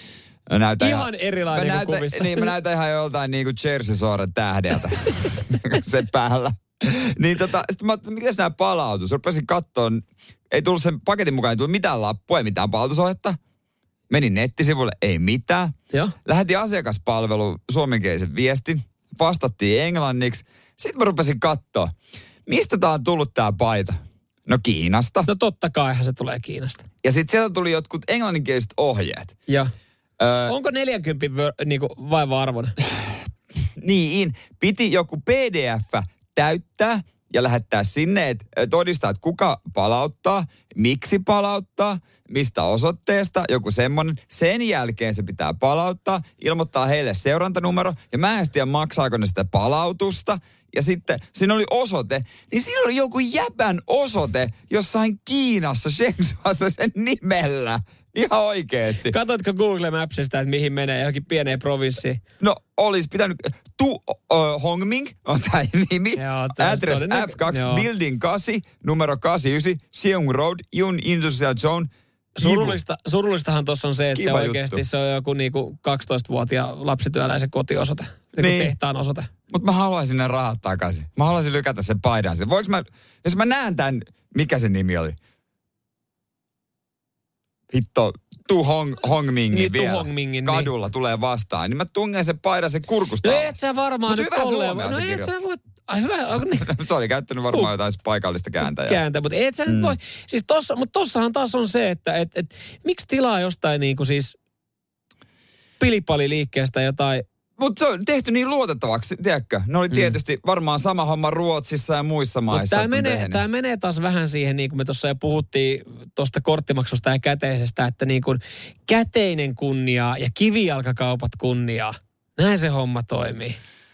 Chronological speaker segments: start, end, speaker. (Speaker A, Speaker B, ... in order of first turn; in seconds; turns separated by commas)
Speaker A: 0.5-13.4, Speaker B: 0.8-2.5, Speaker A: 14.1-21.9, Speaker A: 22.4-25.3, Speaker B: 25.2-26.8, Speaker A: 27.0-29.4, Speaker A: 30.2-30.5, Speaker B: 30.4-32.8, Speaker A: 33.8-59.1, Speaker B: 59.1-62.2, Speaker A: 62.4-72.8, Speaker B: 66.2-67.8, Speaker B: 72.3-79.3, Speaker A: 74.1-74.8, Speaker A: 78.4-78.7, Speaker A: 79.5-85.2, Speaker A: 87.7-95.3, Speaker B: 89.5-90.7, Speaker B: 93.2-96.7, Speaker A: 96.5-99.0, Speaker B: 98.6-104.3, Speaker A: 99.7-99.9, Speaker B: 105.8-107.2, Speaker A: 107.6-113.4, Speaker B: 112.5-123.6